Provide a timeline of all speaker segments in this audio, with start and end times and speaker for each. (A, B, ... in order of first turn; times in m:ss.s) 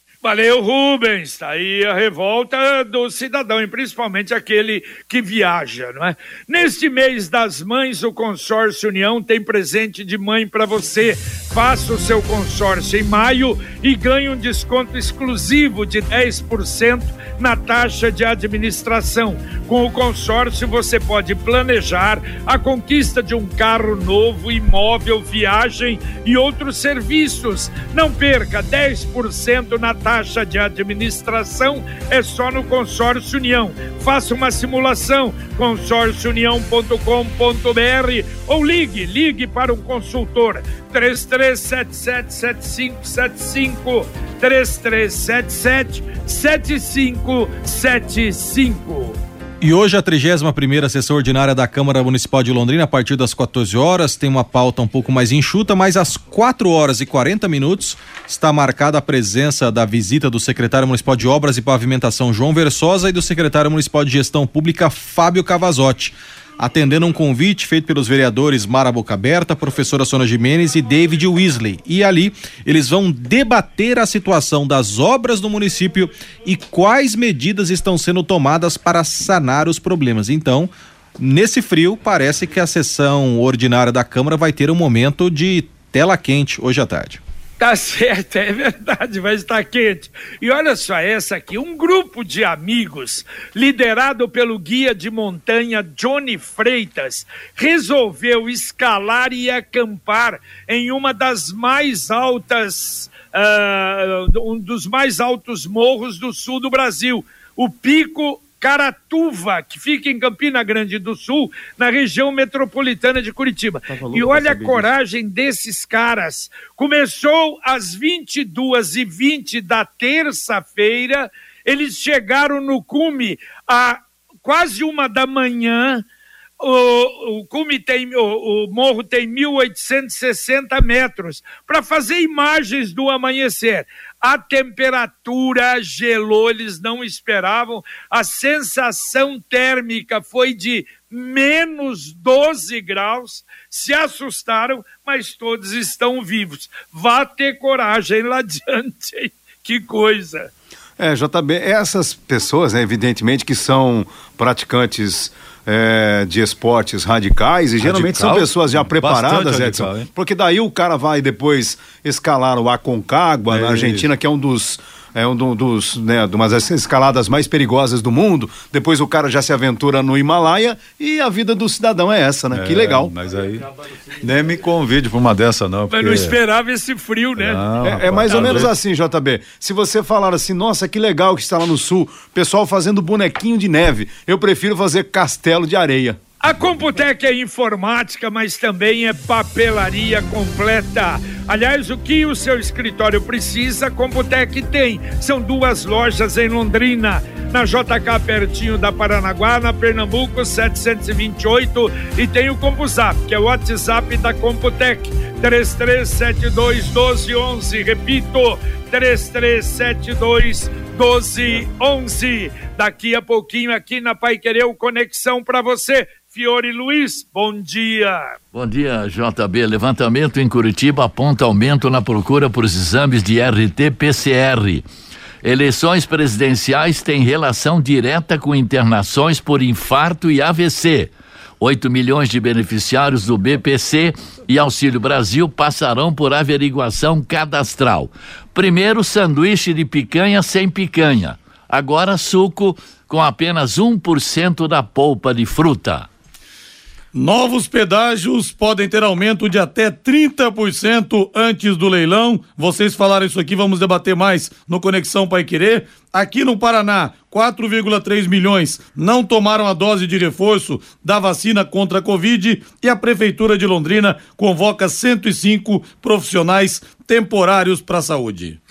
0:00.2-0:49.2 A
0:49.6-1:27.2 B
1:27.6-2:06.0 A
2:06.6-2:30.5 A
2:31.0-2:53.1 C
2:37.8-2:40.1 D
2:43.5-2:44.1 D
2:52.5-2:53.7 D
2:54.2-2:56.4 D
2:55.9-2:57.7 A
2:57.4-2:58.7 D
2:57.8-3:06.2 C
2:58.3-2:58.6 A
3:06.4-3:38.4 A
3:38.5-3:44.8 E
3:45.4-4:06.1 E
4:07.1-4:28.6 F